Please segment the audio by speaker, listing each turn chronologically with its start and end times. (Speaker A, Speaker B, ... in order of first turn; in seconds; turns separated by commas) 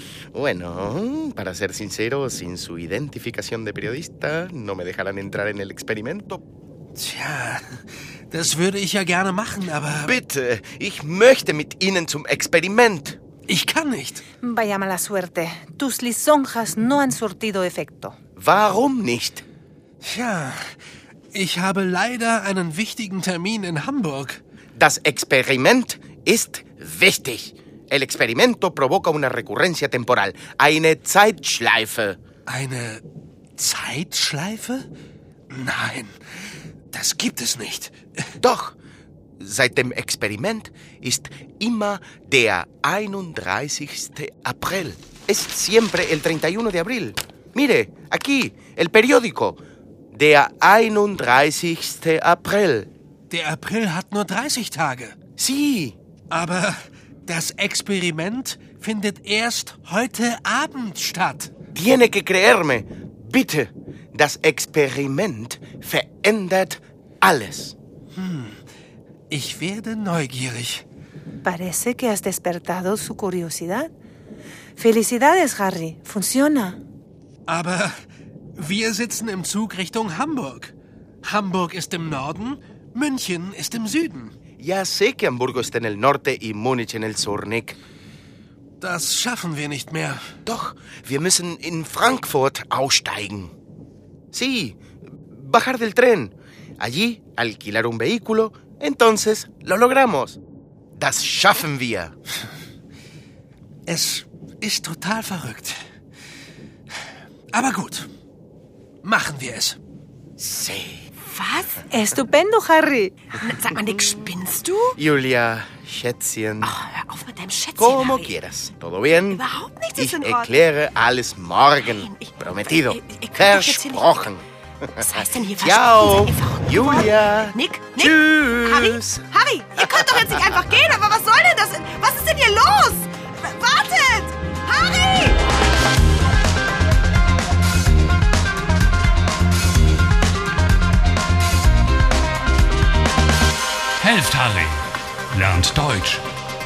Speaker A: 0.3-6.4, Speaker B: 7.0-10.2, Speaker A: 10.0-13.2, Speaker B: 13.5-14.2, Speaker C: 14.4-18.2, Speaker A: 18.4-19.4, Speaker B: 20.0-20.8, Speaker B: 21.3-24.4, Speaker A: 24.7-32.2, Speaker B: 32.5-33.0, Speaker B: 33.6-34.9, Speaker B: 35.5-36.2, Speaker B: 36.9-38.2, Speaker A: 38.4-38.8, Speaker A: 39.4-49.6, Speaker A: 50.1-52.9, Speaker B: 53.3-55.2, Speaker A: 55.4-56.0, Speaker B: 56.3-61.5, Speaker A: 61.7-67.8, Speaker B: 68.2-68.6, Speaker B: 69.3-70.8, Speaker C: 71.4-73.9, Speaker C: 74.8-76.8, Speaker B: 77.5-78.0, Speaker B: 78.6-84.3, Speaker A: 84.6-87.8, Speaker B: 88.8-90.2, Speaker A: 90.5-93.5, Speaker A: 94.3-100.4, Speaker A: 101.0-102.2, Speaker B: 103.9-105.8, Speaker B: 107.5-108.1, Speaker B: 109.0-109.8, Speaker A: 110.4-111.1, Speaker D: 111.2-111.8, Speaker C: 111.9-113.4, Speaker D: 113.3-115.0, Speaker A: 115.0-116.8, Speaker D: 116.6-118.4, Speaker A: 117.8-119.4, Speaker D: 119.3-120.5, Speaker A: 120.0-124.5, Speaker D: 121.8-124.2, Speaker D: 125.0-135.4, Speaker A: 125.0-130.6, Speaker E: 144.0-146.3